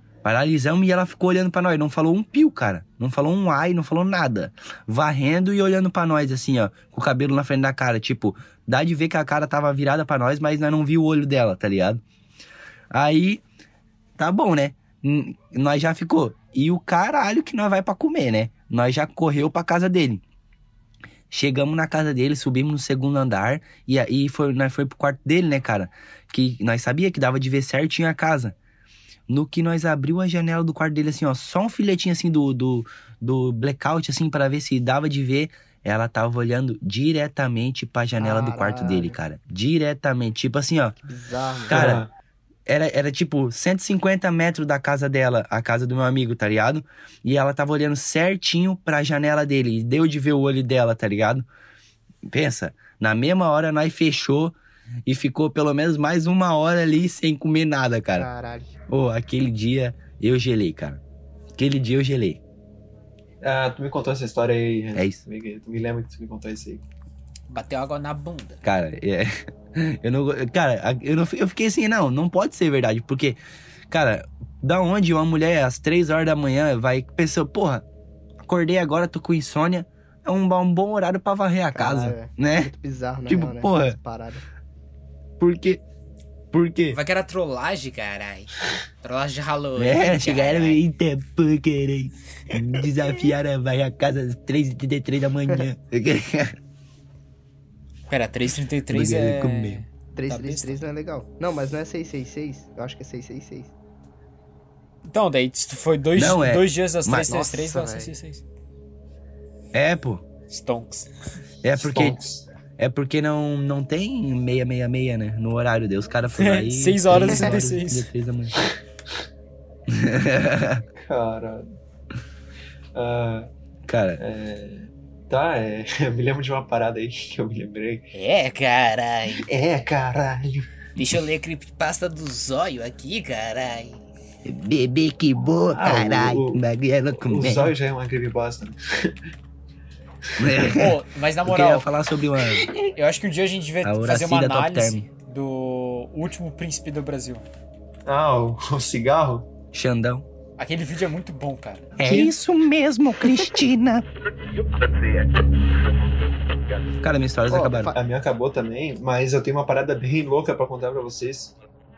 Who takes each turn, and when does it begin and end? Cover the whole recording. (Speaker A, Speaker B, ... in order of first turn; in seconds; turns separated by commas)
Speaker A: 0.2-12.0, Speaker A: 12.9-13.4, Speaker A: 14.2-20.2, Speaker A: 21.3-28.6, Speaker A: 29.3-41.0, Speaker B: 38.2-39.2, Speaker B: 41.1-41.9, Speaker A: 41.7-42.0, Speaker C: 41.7-42.1, Speaker A: 42.7-51.5, Speaker A: 52.2-54.5, Speaker A: 55.1-58.3, Speaker B: 58.1-58.7, Speaker A: 58.9-61.0, Speaker A: 61.6-62.4, Speaker C: 63.4-66.8, Speaker A: 65.0-65.2, Speaker D: 67.5-68.6, Speaker A: 68.6-73.4, Speaker A: 73.9-77.8, Speaker A: 78.4-82.7, Speaker B: 81.7-84.5, Speaker A: 83.3-84.0, Speaker A: 85.4-85.8, Speaker A: 86.5-87.0, Speaker D: 86.9-90.8, Speaker A: 89.8-96.6, Speaker D: 98.1-100.9, Speaker A: 98.9-99.8, Speaker B: 100.1-103.7, Speaker D: 105.0-108.4, Speaker A: 106.2-107.5, Speaker B: 107.3-108.2, Speaker A: 109.7-110.2, Speaker D: 110.5-111.1, Speaker A: 111.6-112.2, Speaker C: 111.8-112.5, Speaker A: 112.8-118.5, Speaker D: 116.4-118.1, Speaker A: 119.9-120.8, Speaker C: 121.0-121.8, Speaker C: 123.0-123.5, Speaker A: 123.9-124.2, Speaker C: 124.2-128.1, Speaker D: 128.1-129.5, Speaker C: 129.3-130.8, Speaker D: 131.0-134.0, Speaker A: 134.4-137.7, Speaker C: 135.7-136.6, Speaker C: 137.2-139.2, Speaker A: 140.4-142.7, Speaker D: 140.6-147.4, Speaker A: 143.8-145.1, Speaker C: 148.1-149.5, Speaker A: 149.7-150.3, Speaker D: 150.6-151.9, Speaker A: 152.0-154.1, Speaker C: 152.0-152.3, Speaker A: 157.0-157.9, Speaker B: 157.5-158.0, Speaker C: 157.9-161.6